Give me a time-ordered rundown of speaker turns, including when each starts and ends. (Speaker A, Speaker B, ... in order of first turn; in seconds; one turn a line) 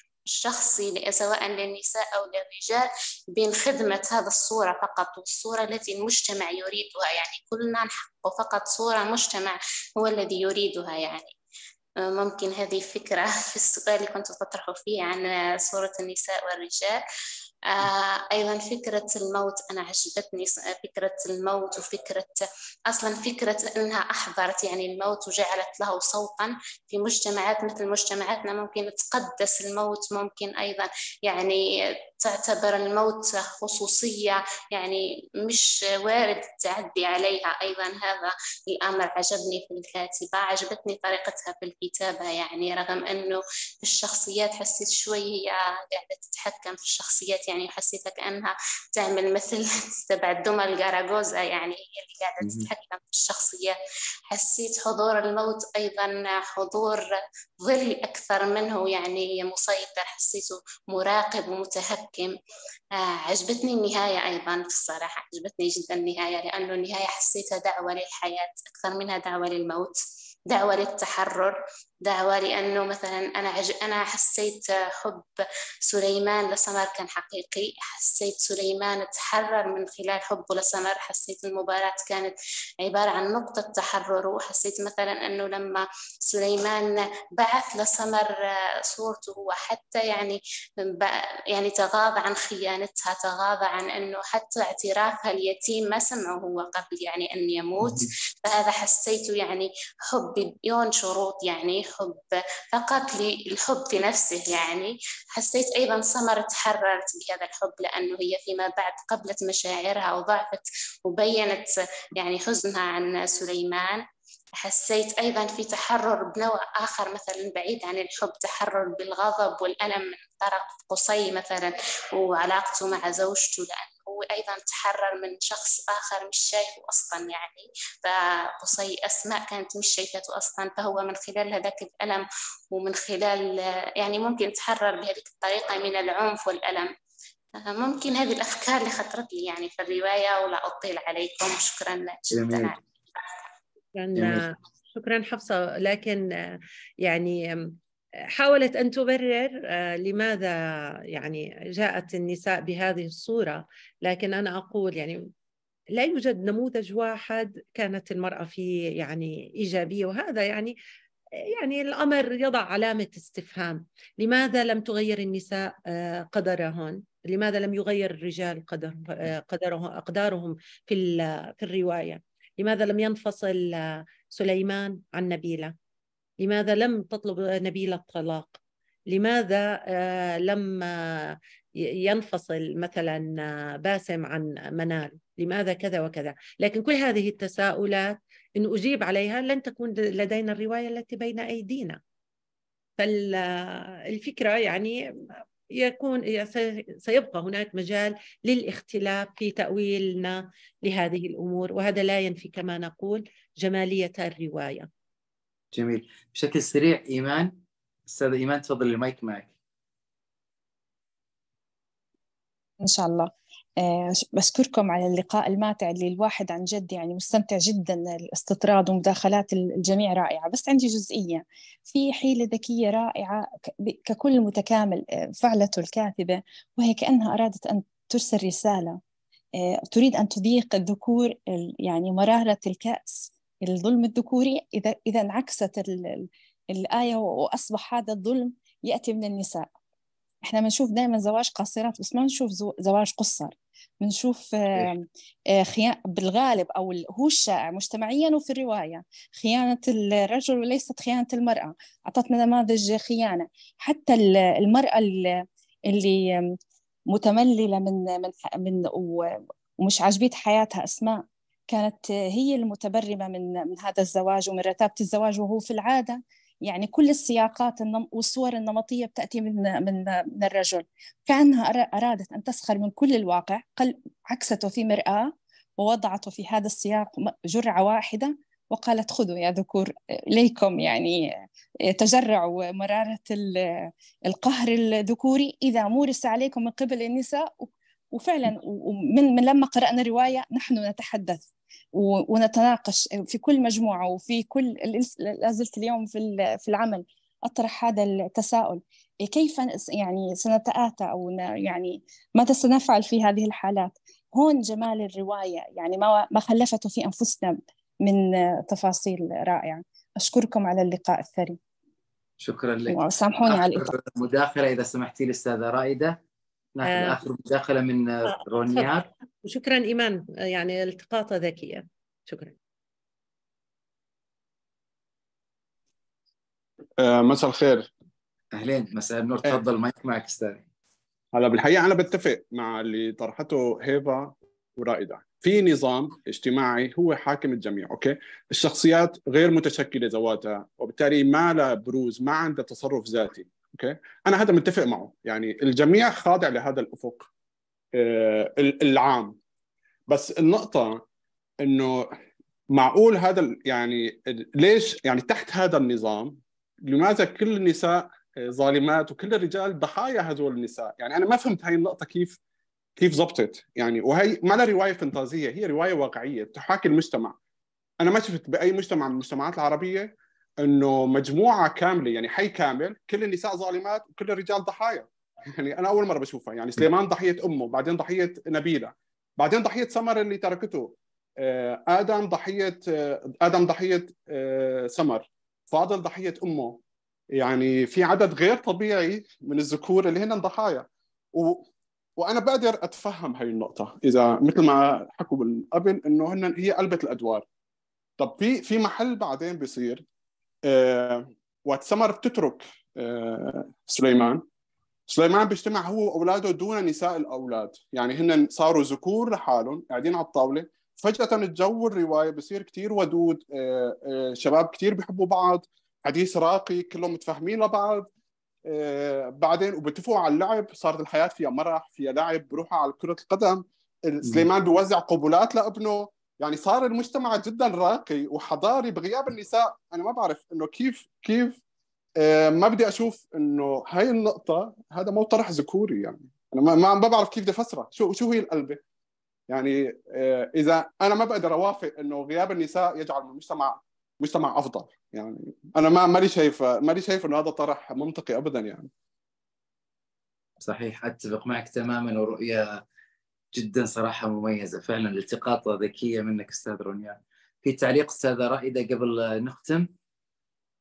Speaker A: 0.3-11.3
Speaker A: 12.0-17.0
Speaker A: 17.7-31.6
Speaker A: 32.2-53.8
Speaker A: 54.3-57.1
Speaker A: 57.6-62.3
Speaker A: 63.0-75.3
Speaker A: 75.9-88.4
Speaker A: 88.9-114.0
Speaker B: 97.8-98.1
Speaker A: 114.6-136.9
Speaker A: 137.6-142.8
Speaker B: 142.3-142.7
Speaker C: 143.9-147.8
Speaker B: 144.2-144.4
Speaker C: 148.3-150.6
Speaker C: 151.1-155.3
Speaker C: 155.9-160.8
Speaker C: 161.5-175.7
Speaker C: 176.4-192.0
Speaker C: 193.0-195.0
Speaker C: 195.7-204.9
Speaker B: 205.7-207.5
Speaker B: 208.1-209.5
Speaker D: 212.8-229.0
Speaker D: 229.6-239.7
Speaker D: 240.4-256.6
Speaker D: 257.1-259.2
Speaker D: 259.8-281.2
Speaker D: 281.9-311.6
Speaker B: 312.4-316.2
Speaker D: 312.9-313.9
Speaker B: 316.8-319.1
Speaker C: 316.9-317.2
Speaker C: 318.3-318.9
Speaker C: 319.4-322.5
Speaker E: 327.0-327.9
Speaker B: 328.5-330.6
Speaker E: 331.3-347.3
Speaker E: 347.9-349.4
Speaker E: 350.1-351.0
Speaker E: 351.6-352.1
Speaker E: 352.7-362.4
Speaker E: 363.0-367.4
Speaker E: 368.0-386.8
Speaker E: 387.4-391.7
Speaker E: 392.2-397.4
Speaker E: 398.2-400.1
Speaker E: 400.7-404.4
Speaker E: 405.1-418.1
Speaker E: 418.7-431.6
Speaker E: 432.2-438.8
Speaker E: 439.5-448.9
Speaker B: 450.6-452.8
Speaker B: 453.5-459.9